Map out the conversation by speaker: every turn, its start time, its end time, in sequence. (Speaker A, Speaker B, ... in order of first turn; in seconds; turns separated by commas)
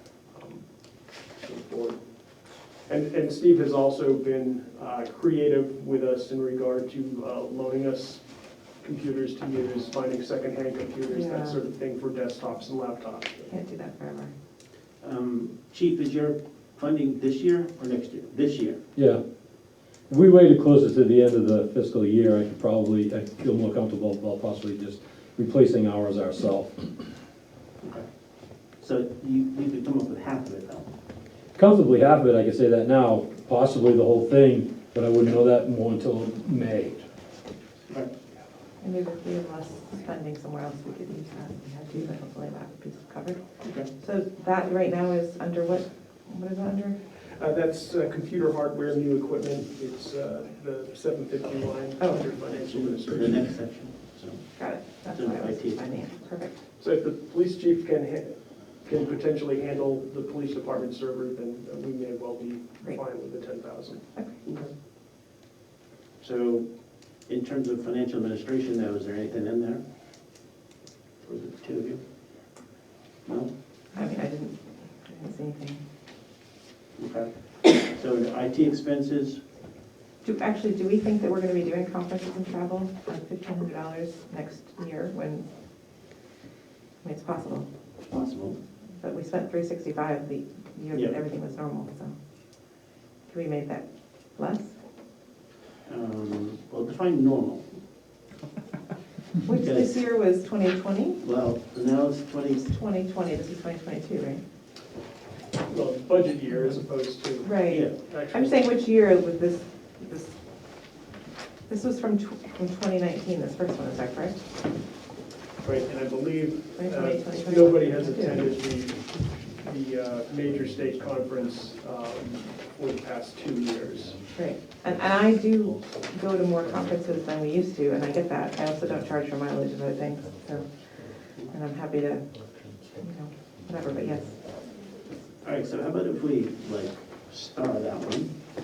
Speaker A: 0.3-0.6, Speaker A: 1.3-2.0, Speaker A: 2.9-8.2, Speaker A: 8.8-13.5, Speaker B: 11.1-11.6, Speaker B: 13.5-14.3, Speaker C: 15.0-18.8, Speaker D: 18.9-19.2, Speaker D: 20.1-26.9, Speaker C: 28.8-30.9, Speaker D: 31.6-37.0, Speaker B: 38.8-43.4, Speaker C: 43.6-43.9, Speaker B: 44.0-47.0, Speaker A: 47.4-53.5, Speaker B: 52.0-52.2, Speaker C: 52.5-54.5, Speaker B: 54.5-56.6, Speaker C: 55.1-55.8, Speaker A: 56.8-64.7, Speaker C: 66.2-66.7, Speaker C: 67.3-69.8, Speaker C: 71.2-72.0, Speaker C: 73.2-73.5, Speaker B: 73.9-75.8, Speaker C: 77.0-79.4, Speaker B: 80.2-85.5, Speaker B: 87.0-87.7, Speaker C: 88.0-88.6, Speaker B: 89.0-92.2, Speaker C: 90.9-91.2, Speaker B: 93.3-94.8, Speaker C: 95.8-97.8, Speaker B: 99.4-101.2, Speaker C: 99.5-100.0, Speaker C: 101.2-102.7, Speaker B: 102.7-104.4, Speaker A: 105.7-108.7, Speaker B: 107.4-110.4, Speaker B: 111.7-114.4, Speaker A: 115.6-124.2, Speaker B: 116.8-118.6, Speaker B: 124.3-130.7, Speaker B: 131.4-132.3, Speaker B: 133.0-134.5, Speaker C: 135.4-138.3